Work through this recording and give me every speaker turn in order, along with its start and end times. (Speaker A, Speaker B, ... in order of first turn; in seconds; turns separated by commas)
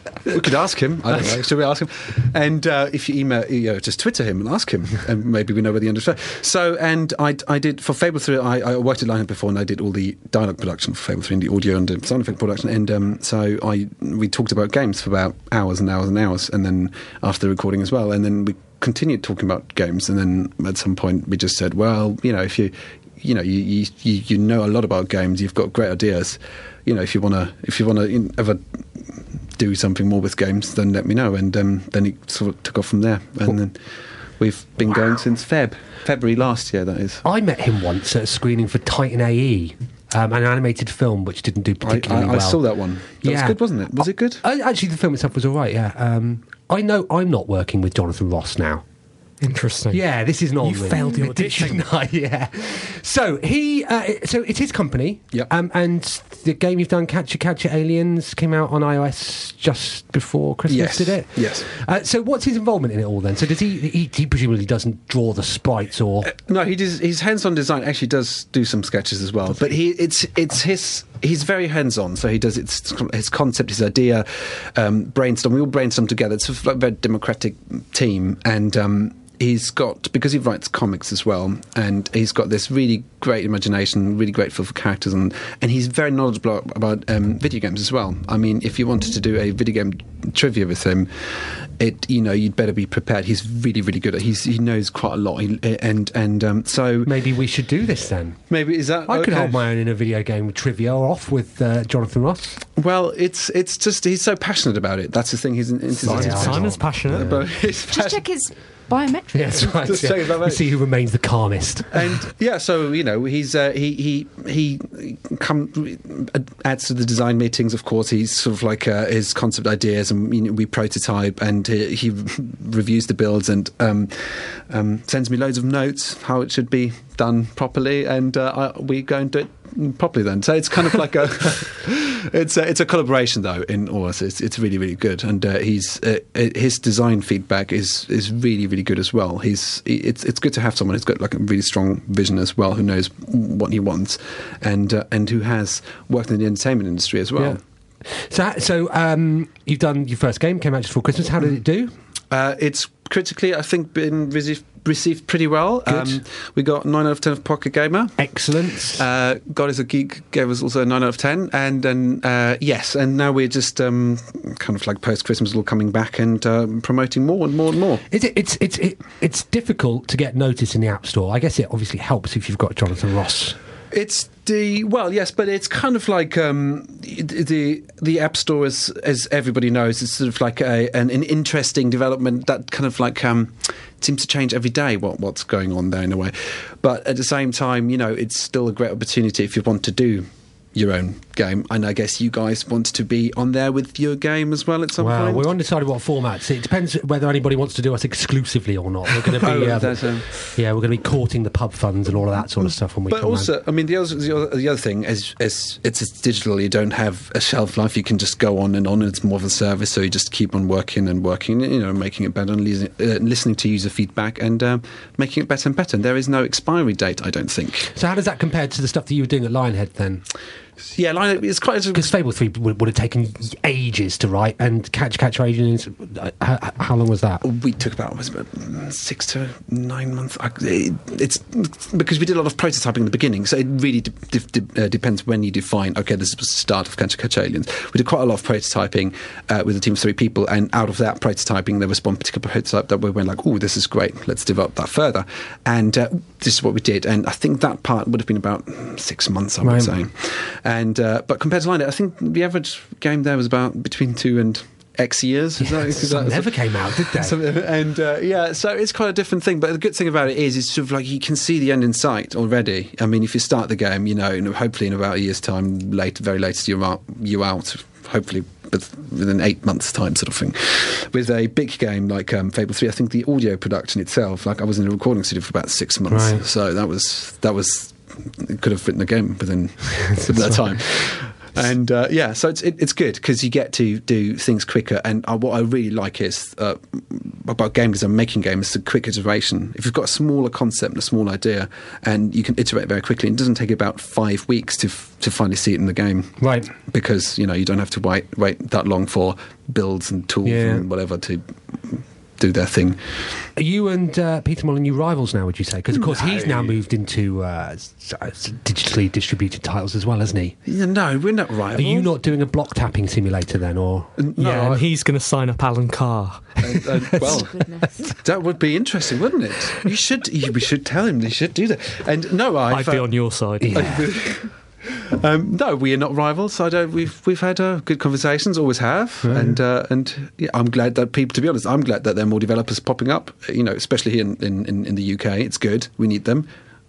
Speaker A: 0.3-33.8, Speaker B: 1.1-1.4, Speaker A: 34.4-37.2, Speaker B: 37.2-42.6, Speaker A: 41.8-44.4, Speaker B: 43.2-48.8, Speaker C: 49.4-50.0, Speaker B: 49.9-66.3, Speaker C: 50.6-51.8, Speaker A: 60.7-61.7, Speaker A: 66.3-97.1, Speaker B: 97.0-98.4, Speaker A: 98.5-99.7, Speaker B: 99.1-102.6, Speaker A: 102.8-108.2, Speaker B: 106.0-107.5, Speaker C: 106.0-107.3, Speaker D: 107.9-109.9, Speaker B: 109.3-112.2, Speaker A: 109.8-110.7, Speaker A: 111.9-147.6, Speaker B: 147.4-151.9, Speaker A: 152.3-158.3, Speaker B: 155.9-156.2, Speaker B: 158.2-159.1, Speaker A: 158.9-168.0, Speaker B: 168.1-173.6, Speaker A: 173.9-195.5, Speaker B: 195.0-203.5, Speaker A: 199.2-200.4, Speaker A: 203.1-217.9, Speaker B: 217.9-220.2, Speaker A: 220.9-222.1, Speaker B: 221.9-227.4, Speaker A: 227.4-303.0, Speaker B: 249.6-250.0, Speaker B: 255.6-257.4, Speaker B: 276.1-276.4, Speaker B: 280.2-280.8, Speaker B: 296.4-296.7, Speaker B: 300.4-300.9, Speaker B: 303.6-310.6, Speaker A: 305.9-306.8, Speaker A: 310.7-312.1, Speaker B: 311.7-314.2, Speaker A: 314.2-314.8, Speaker C: 314.4-316.6, Speaker A: 316.6-323.1, Speaker B: 316.8-317.4, Speaker D: 317.2-317.9, Speaker C: 322.7-323.9, Speaker B: 323.6-324.1, Speaker A: 323.7-336.5, Speaker B: 329.2-329.6